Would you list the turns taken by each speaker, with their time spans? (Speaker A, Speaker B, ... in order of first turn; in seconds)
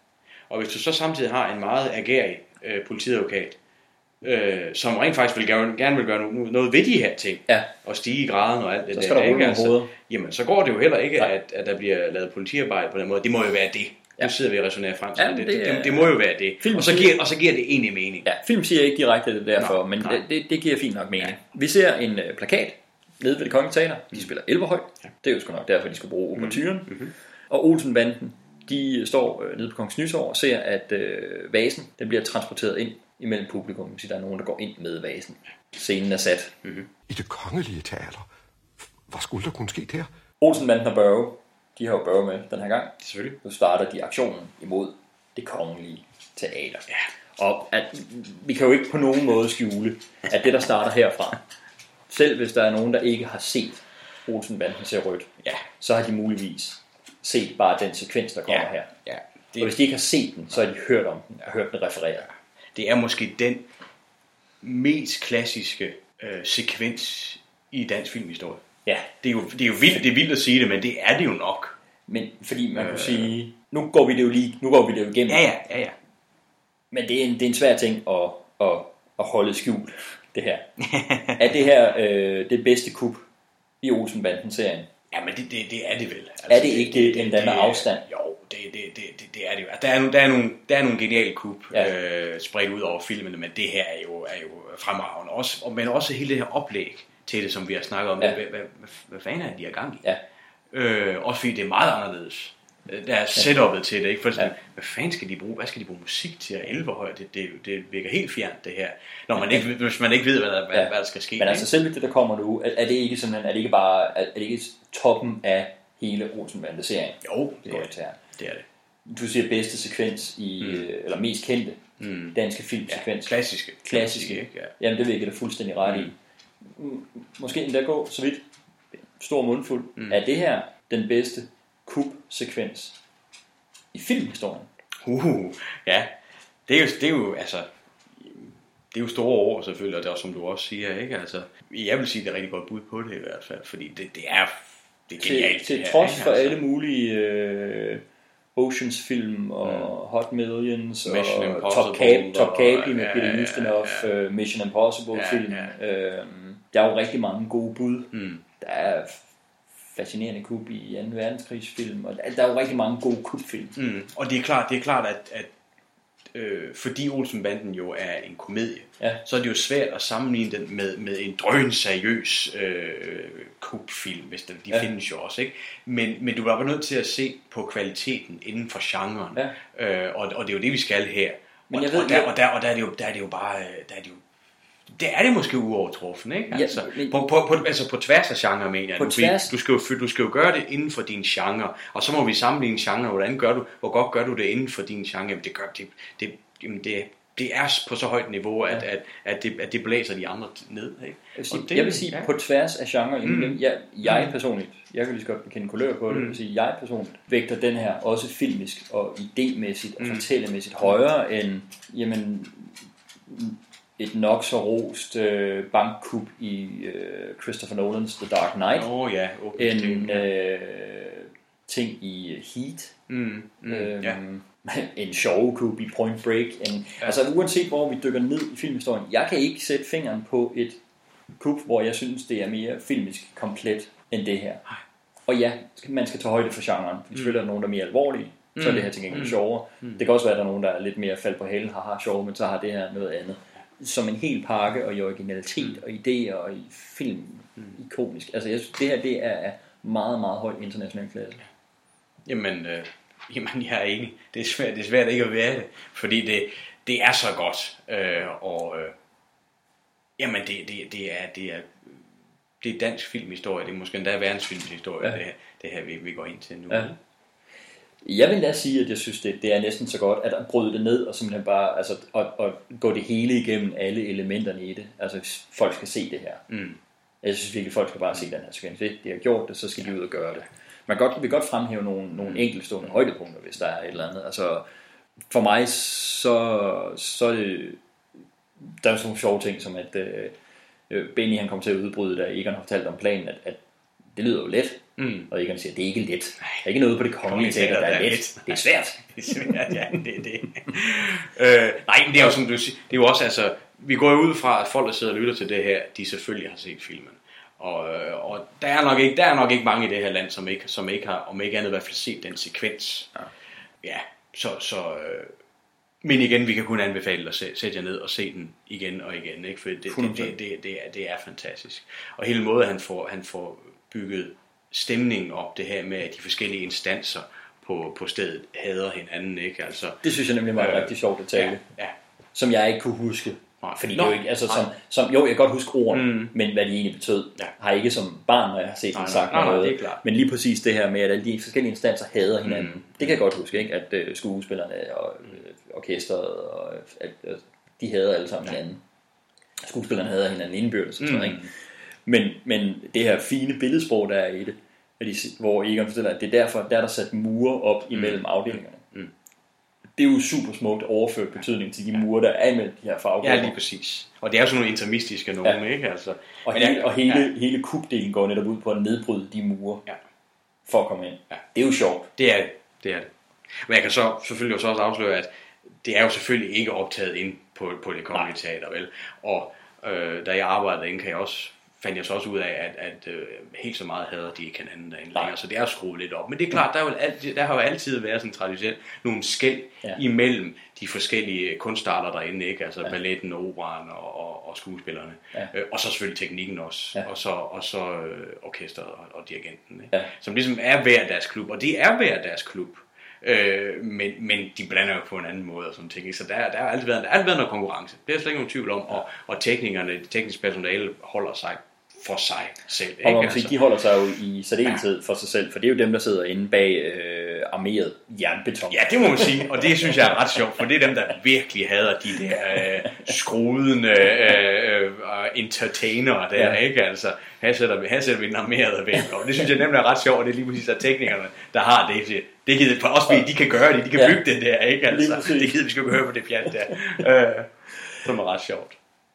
Speaker A: 0.5-3.6, 4.2-18.3, 19.6-20.2, 26.3-27.1, 43.0-43.4, 58.5-59.8, 62.7-63.7, 64.6-68.6, 69.2-71.8, 72.7-73.3, 75.3-76.0, 80.8-81.5, 85.1-100.0, 100.7-111.7, 117.2-118.6, 120.6-120.9, 122.0-124.7, 125.8-126.1, 135.0-136.1, 136.7-146.6, 149.6-149.9, 151.0-154.1, 155.1-155.8, 158.1-158.4, 163.8-165.5, 166.3-184.2, 184.9-202.3, 203.2-204.3, 206.1-206.4, 210.0-210.2, 218.7-220.3, 223.1-224.2, 237.1-237.4, 238.5-240.0, 252.2-258.9, 260.2-262.0, 262.6-266.9, 276.5-276.8, 295.0-295.3, 297.2-313.1, 313.8-315.3, 316.0-330.0, 330.5-331.9, 333.6-334.7, 335.9-336.3, 338.9-340.0, 342.4-343.2, 351.0-351.5, 357.9-359.1, 363.2-367.3, 372.2-375.3, 375.8-413.6, 418.6-438.8
Speaker B: 8.9-9.9, 15.1-17.2, 18.2-26.9, 27.5-36.5, 40.4-46.9, 47.4-51.4, 52.1-58.9, 59.6-62.3, 72.1-75.5, 76.9-80.7, 81.3-83.2, 83.8-84.9, 86.5-88.0, 109.3-109.7, 110.7-118.2, 119.1-126.1, 126.7-128.4, 129.2-132.9, 133.9-134.7, 145.2-148.0, 148.6-159.2, 159.9-163.8, 181.7-182.3, 186.5-187.2, 189.0-189.5, 201.3-212.7, 213.3-218.9, 219.6-222.9, 223.7-230.8, 231.4-234.6, 235.3-251.4, 268.0-276.4, 277.2-284.6, 285.3-287.8, 288.8-290.3, 290.9-293.6, 294.1-299.5, 319.9-320.3, 330.0-331.6, 332.3-348.8, 349.6-351.5, 352.1-358.8, 360.0-363.6, 366.4-369.8, 370.7-372.1, 413.0-420.1, 422.8-423.1, 434.9-435.6
Speaker C: 37.1-38.3, 39.1-40.1